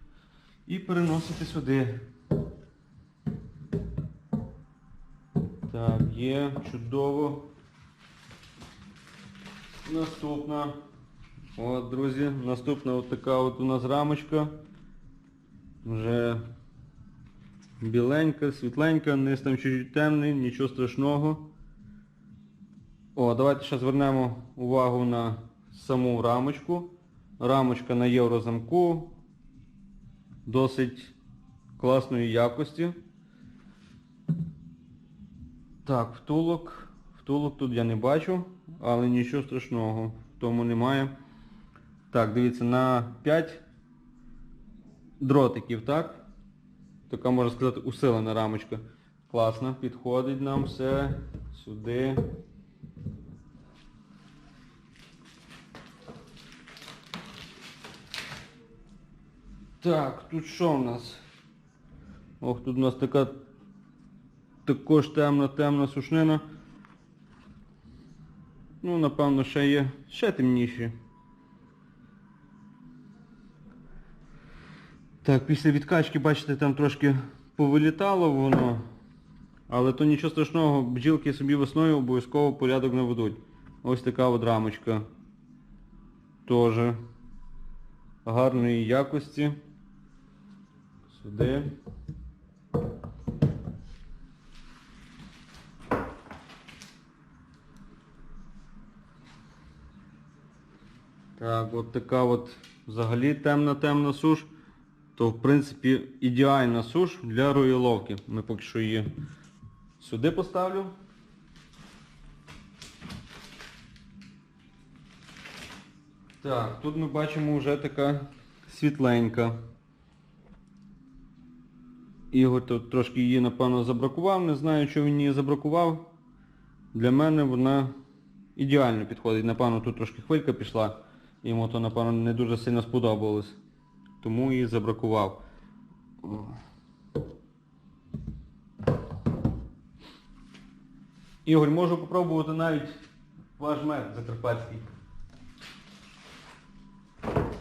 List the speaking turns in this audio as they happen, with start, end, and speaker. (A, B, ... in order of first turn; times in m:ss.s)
0:00.7-0:02.0 A
0:05.7-0:07.5 A
0:09.8-0:10.8 A
0:11.6-0:14.5 A
0:15.8-0:16.4 A
0:17.8-0:21.4 A
0:23.2-0:29.1 A
0:30.5-0:31.1 A
0:31.8-0:33.0 A
0:35.8-0:41.1 A
0:42.1-0:43.6 A
0:45.2-0:46.2 A
0:47.1-0:52.2 A
0:59.8-1:01.2 A
1:02.4-1:03.4 A
1:04.6-1:06.4 A
1:08.8-1:11.0 A
1:15.2-1:18.8 A
1:19.7-1:25.1 A
1:26.5-1:27.0 A
1:28.2-1:29.6 A
1:31.1-1:31.7 A
1:41.4-1:44.5 A
1:45.2-1:49.1 A
1:50.0-1:50.9 A
1:56.4-1:59.6 A
2:02.3-2:06.1 A
2:06.9-2:07.9 A
2:08.6-2:13.6 A
2:14.2-2:15.4 A
2:16.2-2:16.6 A
2:21.4-2:23.0 A
2:23.6-2:24.9 A